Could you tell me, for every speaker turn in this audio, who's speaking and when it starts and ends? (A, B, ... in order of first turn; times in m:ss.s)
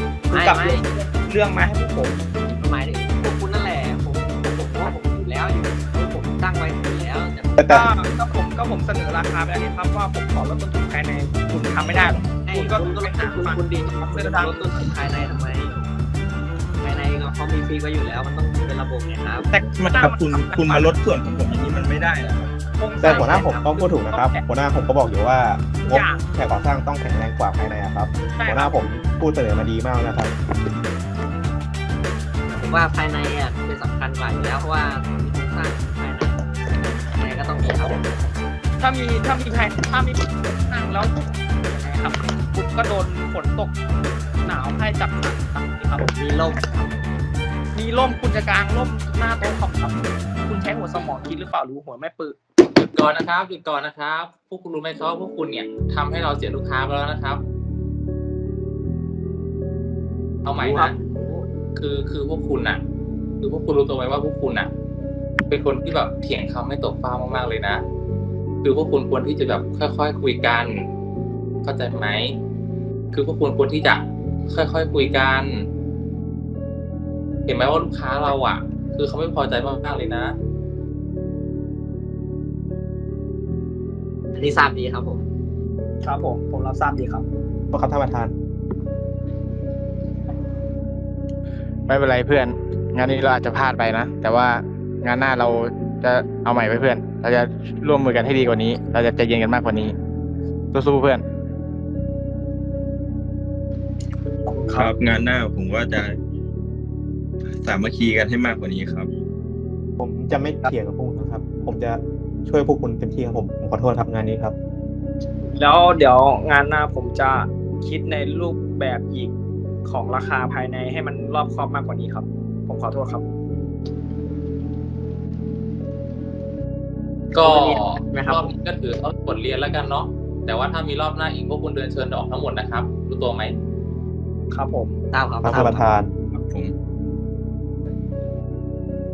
0:00.3-0:00.9 A
0:00.3-0:02.2 B
0:02.5-0:07.7 A
0:07.6-0:07.9 C
0:07.7-0:14.6 B
0:12.4-0:15.8 A
0:16.8-0:19.5 A
0:19.5-0:20.9 B
0:19.7-0:22.5 D
0:22.7-0:23.3 B
0:23.0-0:30.3 C
0:23.0-0:23.8 A
0:24.1-0:24.4 B
0:25.8-0:26.2 B
0:28.4-0:28.8 B
0:32.5-0:38.1 A
0:38.8-0:43.8 B
0:44.4-0:46.3 B
0:46.2-0:46.9 A
0:47.7-0:52.4 B
0:52.6-0:57.4 E
1:00.4-1:01.0 E
1:00.6-1:01.4 A
1:01.7-1:02.8 E
1:03.4-1:04.7 E
1:05.5-1:07.8 E
1:08.6-1:10.9 E
1:11.6-1:12.4 E
1:13.1-1:15.7 E
1:17.5-1:20.3 E
1:24.4-1:25.2 A
1:26.0-1:27.2 B
1:27.7-1:28.3 C
1:31.9-1:39.9 F
1:40.7-1:41.2 F
1:44.7-1:44.9 B
1:44.7-1:46.2 D
1:47.6-1:49.1 D
1:50.0-1:54.5 C
1:55.5-1:59.3 B
1:59.8-2:03.2 B
2:07.3-2:13.5 E
2:07.3-2:08.5 A
2:14.5-2:15.0 B
2:15.1-2:15.9 A
2:15.4-2:16.1 C
2:16.3-2:16.7 D